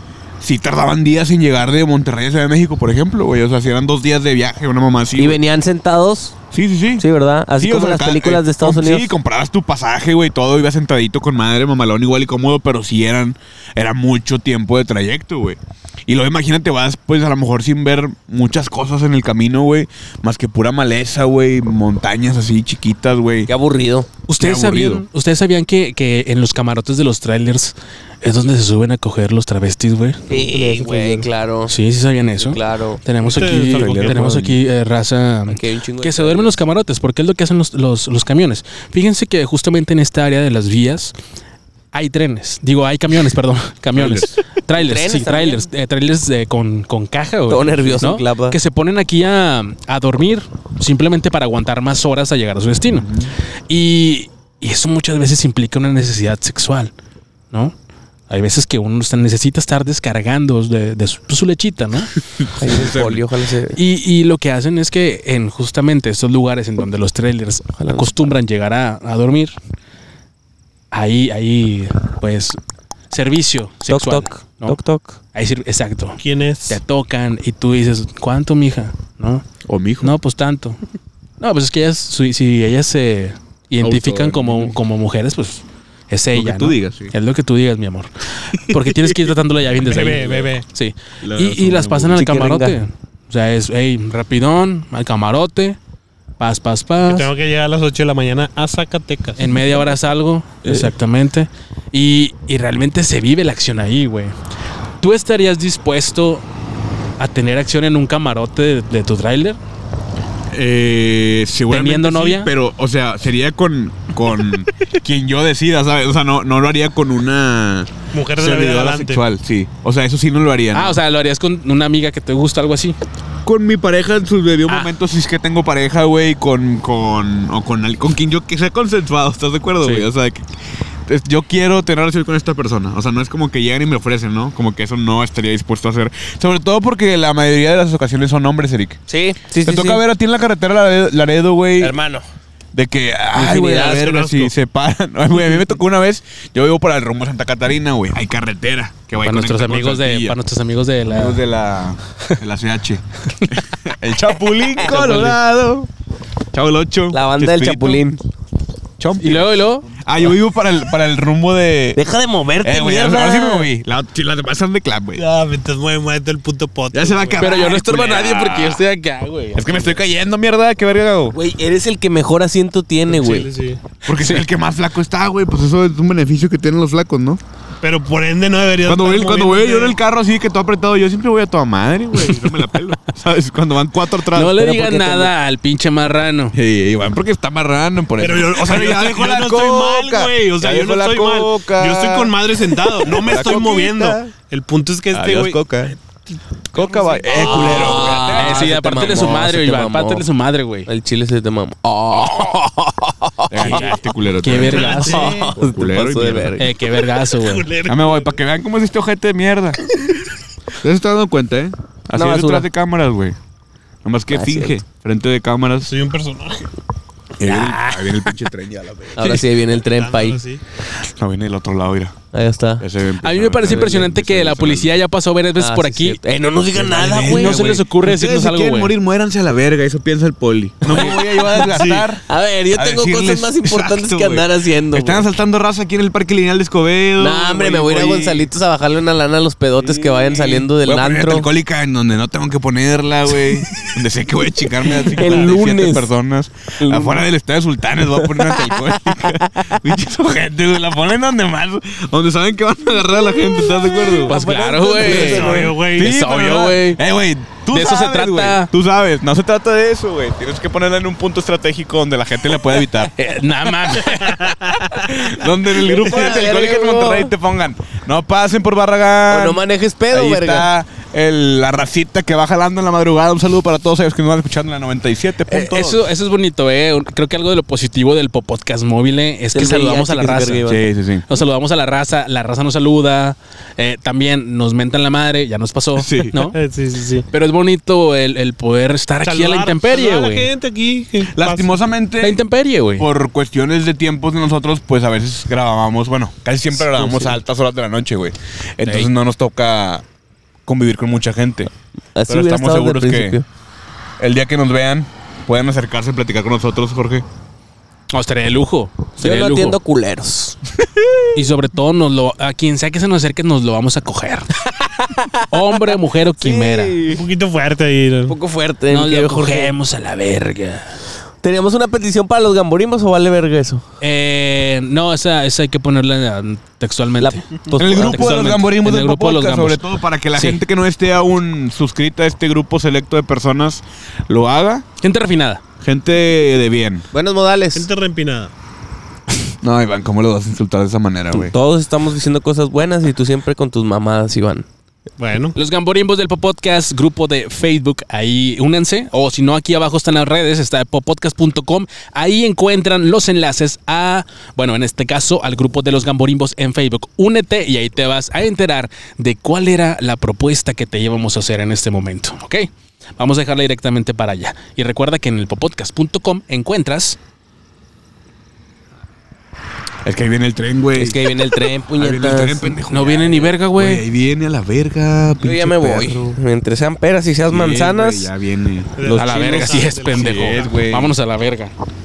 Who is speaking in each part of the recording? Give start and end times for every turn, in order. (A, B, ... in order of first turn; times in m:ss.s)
0:00.4-0:05.4 A
0:05.2-0:06.4 B
0:06.5-0:07.0 A
0:07.0-0:09.1 B
0:07.6-0:23.5 A
0:23.5-0:24.1 B
0:24.3-0:30.2 C
0:24.4-0:25.1 A
0:30.3-0:31.8 B
0:30.3-0:31.3 D
0:31.7-0:41.1 C
0:32.4-0:34.4 B
0:33.2-0:34.4 D
0:34.2-0:34.6 A
0:35.5-0:36.6 B
0:41.9-0:53.1 C
0:44.0-0:44.3 A
0:44.7-0:45.6 B
0:47.5-0:48.6 B
0:53.0-0:53.3 A
0:53.7-0:56.9 C
0:58.3-1:02.1 C
1:02.4-1:03.2 A
1:02.6-1:03.8 B
1:03.8-1:09.5 C
1:07.8-1:08.1 B
1:10.9-1:12.6 C
1:13.1-1:14.8 C
1:13.9-1:15.2 B
1:15.3-1:19.5 C
1:16.2-1:16.8 D
1:19.6-1:20.2 A
1:20.0-1:20.8 C
1:21.4-1:35.8 C
1:23.8-1:24.8 A
1:26.3-1:27.1 A
1:28.7-1:29.2 A
1:29.8-1:30.6 D
1:31.2-1:32.3 A
1:32.2-1:32.8 B
1:36.4-1:37.3 C
1:37.1-1:39.4 D
1:39.4-1:44.4 C
1:45.0-1:46.4 C
1:47.2-1:49.6 C
1:50.5-2:01.0 A
1:51.7-1:52.5 C
1:58.1-1:59.2 D
2:00.7-2:03.0 C
2:03.4-2:10.4 A
2:04.7-2:04.9 C
2:09.8-2:10.1 C
2:11.1-2:19.0 A
2:19.1-2:20.0 B
2:19.6-2:22.0 A
2:21.8-2:22.2 B
2:22.7-2:30.4 A
2:23.4-2:24.0 B
2:23.7-2:24.5 D
2:29.2-2:31.4 C
2:31.1-2:35.9 A
2:34.8-2:35.4 C
2:36.5-2:38.2 A
2:37.1-2:38.2 B
2:39.0-2:42.0 A
2:39.2-2:39.9 C
2:42.0-2:43.7 B
2:42.6-2:45.2 A
2:45.2-2:47.8 D
2:46.9-2:48.8 A
2:47.4-2:50.0 C
2:49.6-2:51.4 A
2:51.3-2:53.5 B
2:53.1-2:53.8 D
2:54.1-2:57.4 A
2:54.1-2:54.4 C
2:57.8-3:00.0 D
2:58.9-3:04.7 A
3:04.3-3:06.6 C
3:04.5-3:05.3 B
3:06.5-3:14.2 A
3:08.2-3:15.7 D
3:15.1-3:16.0 A
3:16.7-3:19.4 A
3:16.8-3:18.2 D
3:17.3-3:20.2 B
3:18.1-3:20.9 C
3:20.9-3:23.9 B
3:23.5-3:26.6 A
3:23.6-3:25.3 C
3:24.6-3:25.5 D
3:24.9-3:26.7 B
3:26.6-3:27.7 C
3:27.2-3:28.3 D
3:27.9-3:29.8 A
3:30.8-3:33.4 A
3:32.1-3:32.7 B
3:34.0-3:35.9 A
3:34.3-3:34.8 B
3:35.9-3:36.7 D
3:37.4-3:39.5 A
3:37.4-3:38.3 C
3:39.2-3:40.4 B
3:39.8-3:40.6 D
3:41.0-3:42.2 A
3:42.3-3:42.8 B
3:42.8-3:44.9 A
3:43.2-3:46.2 C
3:45.6-3:47.7 B
3:46.7-3:52.2 A
3:47.0-3:48.9 C
3:50.9-3:55.2 B
3:51.6-3:52.1 D
3:52.7-3:58.5 A
3:57.2-4:01.5 B
3:59.8-4:14.4 A
4:04.9-4:06.1 B
4:06.8-4:07.3 B
4:08.2-4:09.7 B
4:14.2-4:15.7 B
4:14.3-4:17.0 C
4:15.0-4:16.1 D
4:15.2-4:23.1 A
4:17.7-4:18.7 C
4:23.2-4:24.9 C
4:24.2-4:24.9 D
4:24.9-4:36.0 A
4:25.8-4:27.3 B
4:29.3-4:30.7 B
4:35.5-4:46.6 C
4:39.5-4:40.9 B
4:40.7-4:41.3 A
4:46.0-4:46.4 A
4:46.4-4:47.3 D
4:47.3-4:50.5 C
4:49.2-4:51.7 D
4:51.3-4:52.4 A
4:52.2-4:53.1 C
4:53.0-5:00.0 A
4:57.0-4:57.3 B
4:58.8-4:59.1 C
5:00.7-5:01.7 A
5:02.2-5:03.5 B
5:02.3-5:03.4 A
5:04.2-5:07.2 A
5:08.1-5:09.8 C
5:09.2-5:10.6 B
5:11.3-5:14.5 C
5:14.8-5:15.8 B
5:15.5-5:17.0 C
5:16.4-5:17.2 B
5:17.1-5:18.4 D
5:18.3-5:19.7 B
5:18.9-5:20.9 C
5:21.4-5:23.8 B
5:24.0-5:29.8 C
5:27.2-5:28.5 B
5:27.8-5:34.9 A
5:30.4-5:30.6 C
5:35.0-5:35.6 C
5:35.8-5:37.1 A
5:37.1-5:37.9 B
5:37.7-5:38.5 D
5:39.6-5:41.5 A
5:41.3-5:44.7 B
5:45.2-5:45.6 D
5:45.6-6:07.2 C
6:10.0-6:16.4 A
6:11.0-6:12.8 B
6:12.9-6:14.0 C
6:15.4-6:18.3 B
6:17.5-6:19.0 A
6:19.0-6:20.8 D
6:19.0-6:19.8 B
6:19.1-6:21.7 C
6:20.1-6:21.2 A